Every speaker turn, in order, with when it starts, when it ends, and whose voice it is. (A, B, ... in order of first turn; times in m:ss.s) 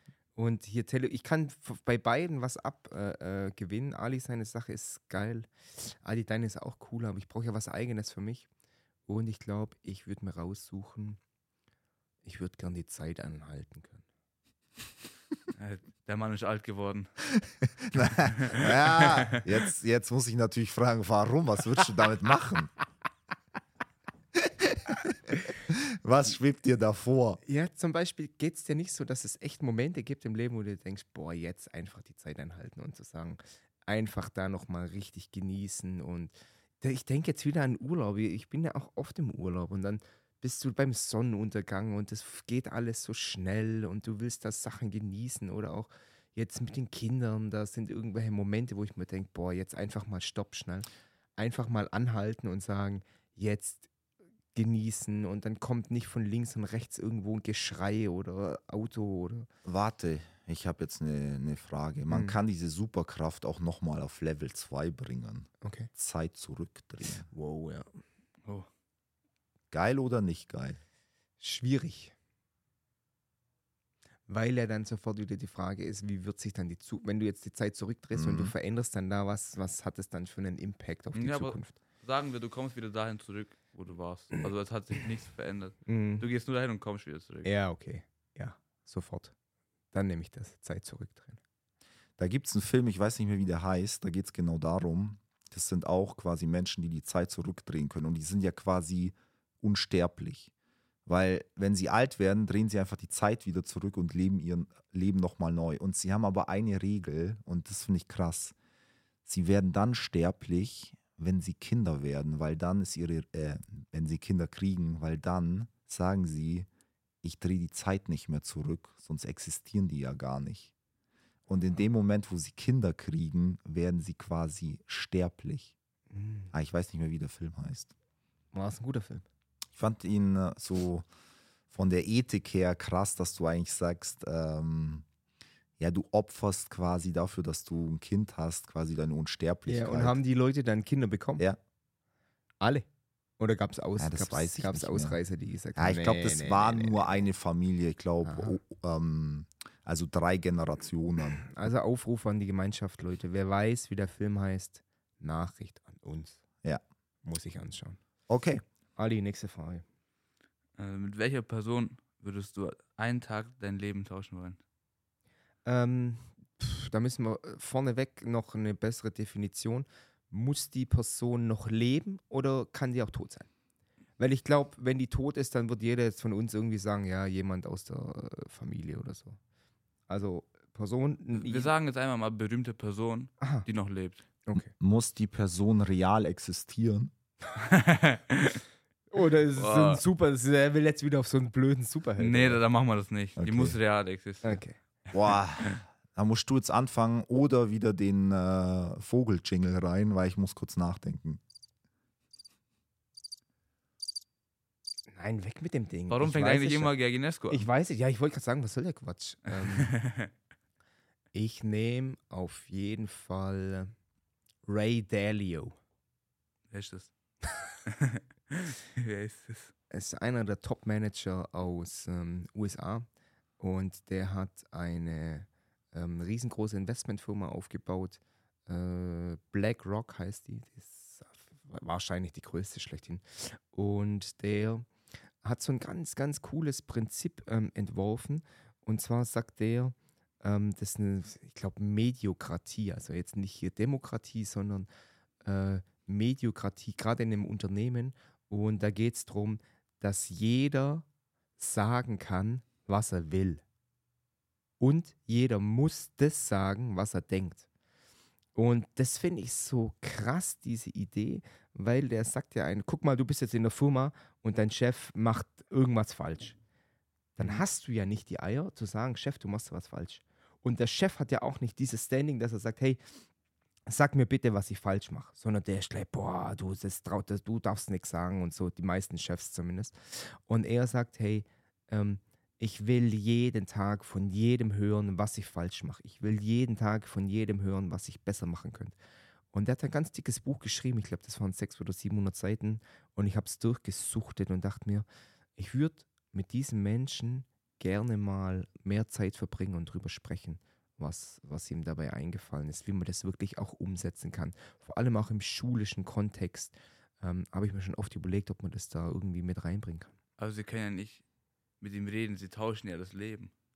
0:00.4-0:08.5 A
0:09.1-0:11.2 A
0:12.2-0:14.0 A
0:15.6-0:17.1 B
0:17.6-0:22.7 C
0:18.3-0:19.4 B
0:24.4-0:27.4 C
0:27.4-0:53.9 A
0:54.5-0:59.5 A
0:59.6-1:07.3 C
1:02.1-1:02.4 A
1:05.6-1:05.9 A
1:07.3-1:07.9 A
1:09.7-1:10.8 C
1:11.4-1:12.1 A
1:14.3-1:21.8 A
1:18.2-1:18.5 C
1:21.2-1:27.5 B
1:25.9-1:26.3 A
1:27.4-1:29.3 A
1:29.9-1:31.4 A
1:32.2-1:40.5 C
1:41.1-1:48.6 C
1:49.3-1:56.7 C
1:57.2-2:00.7 C
2:01.5-2:05.7 C
2:06.1-2:06.5 A
2:06.5-2:07.9 C
2:08.5-2:09.2 A
2:09.8-2:11.0 C
2:11.7-2:15.0 C
2:15.8-2:20.2 C
2:19.7-2:21.4 A
2:22.6-2:22.9 A
2:23.4-2:27.0 A
2:24.0-2:25.2 C
2:25.8-2:31.5 C
2:28.2-2:28.6 A
2:31.4-2:36.4 A
2:37.2-2:38.0 A
2:38.3-2:38.6 C
2:39.0-2:39.8 A
2:40.8-2:44.6 B
2:45.6-2:53.5 A
2:54.2-2:59.4 A
3:00.1-3:01.7 A
3:01.3-3:04.2 B
3:03.4-3:03.7 A
3:04.4-3:04.7 A
3:04.6-3:07.1 C
3:07.6-3:08.6 B
3:09.1-3:12.6 A
3:09.6-3:10.0 B
3:12.2-3:14.6 B
3:13.4-3:13.8 C
3:14.4-3:14.8 A
3:15.1-3:21.4 C
3:25.1-3:26.9 A
3:26.1-3:27.7 B
3:27.5-3:29.9 A
3:29.5-3:30.3 B
3:31.3-3:33.9 A
3:34.7-3:35.8 A
3:36.7-3:37.1 B
3:37.8-3:39.7 B
3:39.9-3:43.1 A
3:43.6-3:54.9 A
3:55.4-4:04.9 A
4:05.4-4:11.1 A
4:11.6-4:13.6 A
4:14.8-4:17.7 A
4:18.6-4:26.6 A
4:27.4-4:33.0 A
4:33.9-4:49.0 A
4:49.5-4:55.1 A
4:55.6-5:10.1 A
5:10.4-5:11.2 B
5:11.8-5:13.5 B